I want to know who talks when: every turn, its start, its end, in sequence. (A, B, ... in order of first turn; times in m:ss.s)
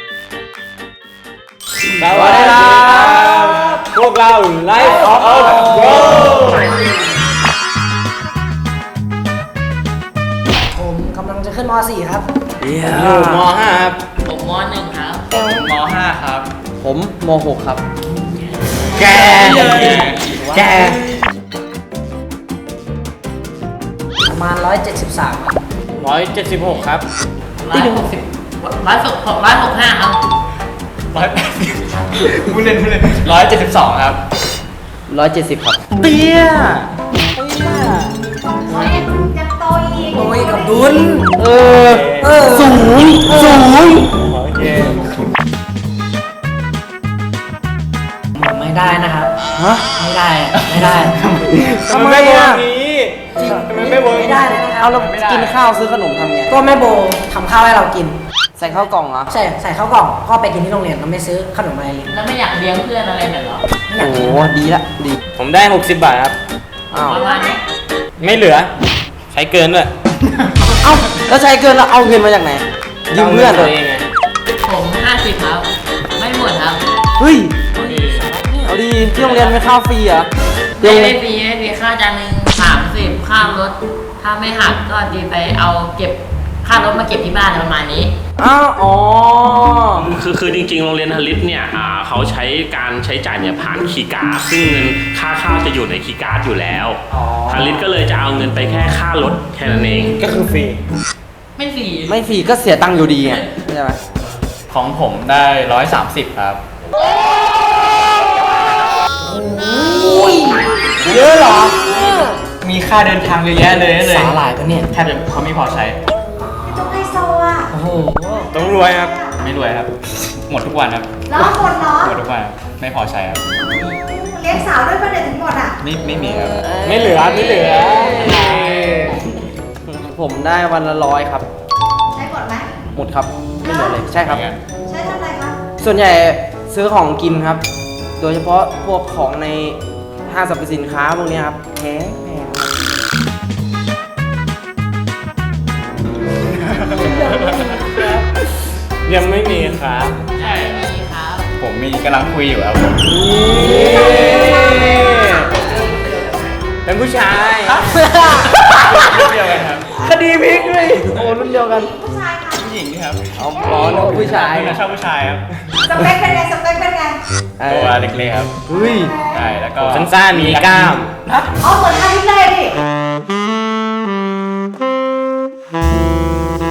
0:02.0-0:06.4 A
0:02.1-0:03.8 B
0:05.3-0:06.3 B
0:05.4-0:06.6 C
0:05.6-0:06.8 D
0:10.6-0:12.2 D
0:12.7-0:13.3 C
0:12.8-0:14.0 A
0:14.2-0:15.3 E
0:15.3-0:16.5 C
0:16.8-0:17.8 B
0:19.0-0:21.0 A
0:19.0-0:20.9 C
0:19.3-0:20.7 D
0:24.2-0:25.6 D
0:26.0-0:27.0 A
0:27.6-0:30.2 E
0:31.1-0:34.2 C
0:35.1-0:36.5 B
0:36.0-0:36.8 A
0:37.3-0:38.2 A
0:38.6-0:41.1 F
0:40.1-0:41.3 D
0:41.4-0:44.1 B
0:41.6-0:42.4 A
0:42.2-0:43.7 D
0:44.1-0:45.1 A
0:48.4-0:49.3 D
0:49.5-0:49.8 B
0:49.9-0:51.2 D
0:51.4-0:52.6 B
0:51.8-0:54.5 A
0:53.4-0:55.0 D
0:54.7-0:56.5 B
0:54.9-0:55.6 C
0:56.5-0:58.2 D
0:58.6-0:59.3 B
0:59.3-1:02.1 D
1:02.1-1:03.6 E
1:03.9-1:04.4 D
1:04.0-1:05.2 B
1:05.4-1:06.3 A
1:06.9-1:07.2 B
1:06.9-1:07.6 E
1:07.1-1:07.6 F
1:08.2-1:08.7 A
1:09.3-1:09.9 A
1:10.8-1:13.7 B
1:13.1-1:14.1 A
1:14.6-1:16.8 E
1:17.2-1:17.6 B
1:17.8-1:18.7 D
1:17.8-1:18.2 C
1:18.6-1:20.3 B
1:19.2-1:19.5 C
1:20.8-1:28.1 E
1:20.8-1:21.2 B
1:28.4-1:30.1 B
1:30.0-1:40.2 G
1:37.1-1:37.8 B
1:40.2-1:40.8 A
1:41.6-1:42.2 E
1:42.1-1:44.0 B
1:43.2-1:43.5 E
1:44.7-1:46.6 C
1:49.2-1:52.4 D
1:51.0-1:51.8 B
1:52.6-1:54.4 C
1:54.0-1:54.9 D
1:54.9-1:56.0 C
1:56.6-1:57.7 F
1:57.7-1:58.5 D
1:58.5-1:59.3 F
1:58.5-1:59.1 A
1:59.4-2:03.4 C
2:01.3-2:02.2 F
2:03.6-2:05.7 F
2:05.8-2:06.8 C
2:06.6-2:09.1 B
2:06.8-2:09.1 A
2:09.8-2:11.4 B
2:12.1-2:12.7 F
2:12.9-2:14.4 B
2:13.6-2:14.0 F
2:14.2-2:14.6 C
2:14.8-2:15.6 F
2:15.8-2:17.6 B
2:18.2-2:22.7 B
2:26.4-2:27.8 C
2:27.2-2:28.0 A
2:29.0-2:30.3 A
2:30.3-2:31.5 E
2:30.4-2:30.6 C
2:31.6-2:34.4 C
2:33.0-2:35.4 B
2:33.6-2:34.1 D
2:34.1-2:35.4 F
2:36.8-2:38.1 A
2:37.6-2:40.0 C
2:38.0-2:38.4 D
2:40.0-2:41.9 B
2:40.8-2:41.3 C
2:41.5-2:42.6 F
2:42.5-2:45.4 C
2:43.4-2:44.8 B
2:45.8-2:47.2 F
2:47.6-2:48.0 B
2:47.6-2:48.5 C
2:48.7-2:49.1 B
2:48.8-2:49.4 F
2:49.3-2:51.5 C
2:49.8-2:51.1 A
2:51.6-2:52.7 F